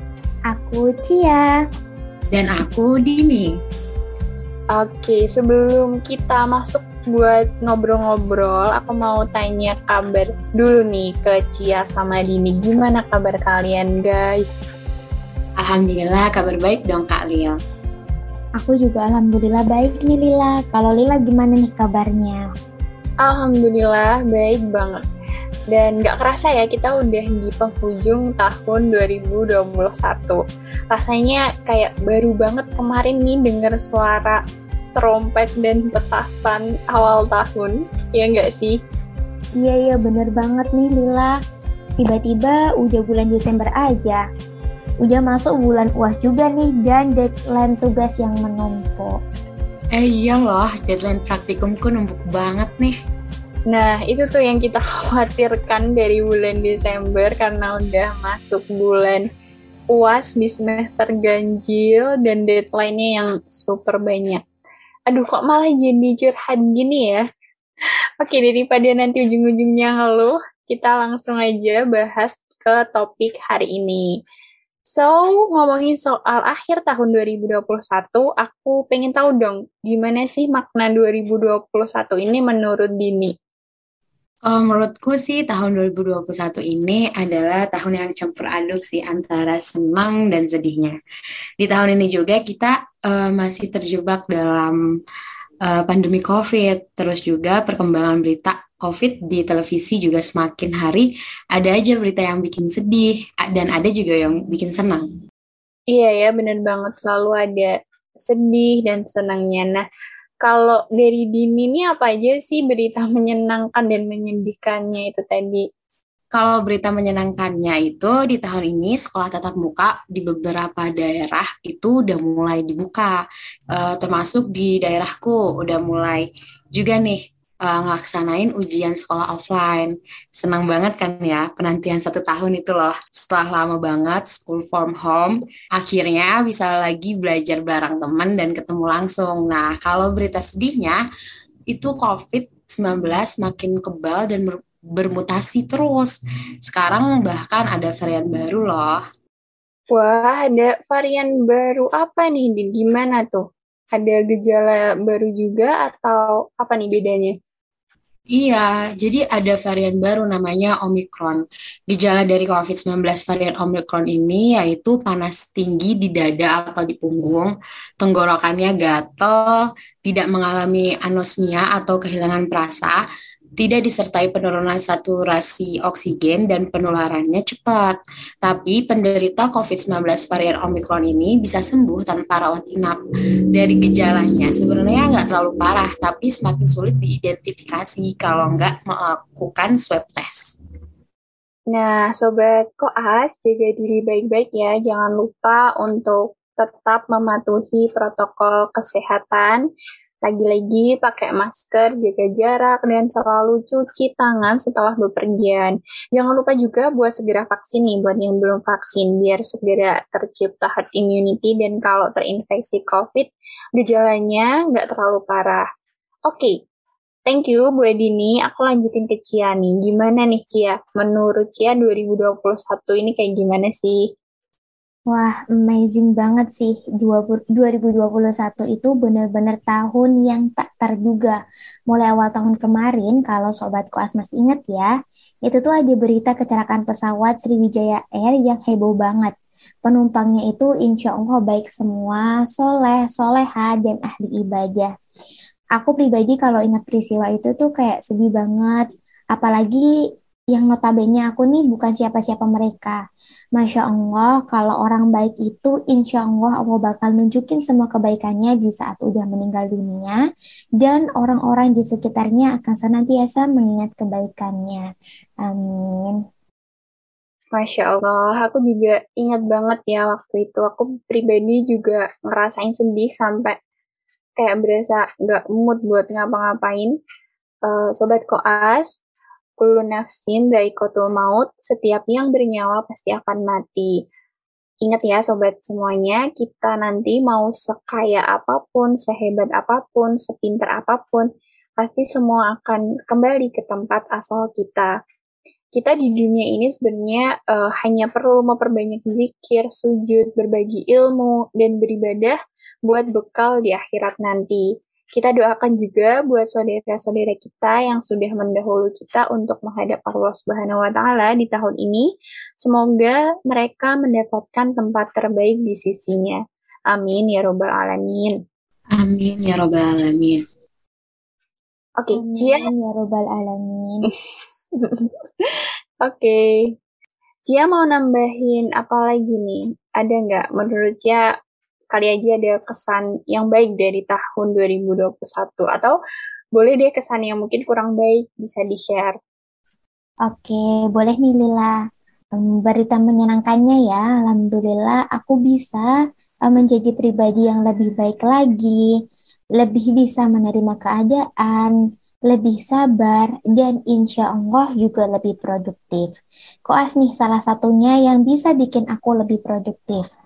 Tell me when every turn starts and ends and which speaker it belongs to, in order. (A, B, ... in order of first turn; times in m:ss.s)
0:00.5-0:01.6 A
0:02.3-0:03.6 B
0:04.7-0:14.6 C
0:15.6-0:17.6 B
0:18.6-0:22.4 A
0:23.2-0:25.0 C
0:25.7-0:34.4 C
0:35.0-0:38.8 C
0:39.6-0:41.4 A
0:42.0-0:44.2 A
0:45.0-0:49.2 A
0:50.0-0:53.0 B
0:53.7-0:59.2 C
0:59.9-1:04.4 C
1:05.1-1:07.2 C
1:08.2-1:14.1 C
1:14.9-1:23.3 C
1:24.4-1:31.0 B
1:31.6-1:34.8 B
1:35.6-1:45.1 B
1:45.9-1:47.7 C
1:48.2-1:49.8 C
1:50.4-1:55.6 C
1:56.3-2:03.2 B
2:03.7-2:21.0 B
2:21.7-2:29.0 B
2:29.9-2:37.3 C
2:38.3-2:53.0 B
2:53.6-3:03.0 B
3:03.5-3:10.6 B
3:11.7-3:19.6 C
3:20.2-3:35.6 C
3:36.3-3:36.5 C
3:37.3-3:44.0 C
3:45.1-3:51.4 A
3:51.9-3:54.9 A
3:55.5-3:59.3 A
3:59.8-4:04.9 A
4:05.8-4:09.9 A
4:10.5-4:13.0 A
4:13.6-4:20.2 A
4:20.8-4:24.8 A
4:25.4-4:26.2 A
4:27.6-4:33.6 C
4:34.4-4:36.9 C
4:37.7-4:38.9 C
4:39.6-4:43.9 C
4:44.8-4:51.3 C
4:51.8-4:54.9 C
4:55.7-5:04.6 C
5:05.2-5:12.1 C
5:12.6-5:16.4 C
5:16.9-5:18.4 C
5:19.0-5:20.4 B
5:22.0-5:22.7 C
5:22.1-5:24.1 A
5:24.8-5:25.5 C
5:26.0-5:26.5 C
5:27.5-5:31.2 C
5:31.9-5:36.0 C
5:36.6-5:39.2 C
5:40.3-5:41.8 A
5:42.4-5:45.9 A
5:46.5-5:48.9 A
5:49.6-5:51.7 A
5:52.3-5:56.1 A
5:56.7-6:00.0 A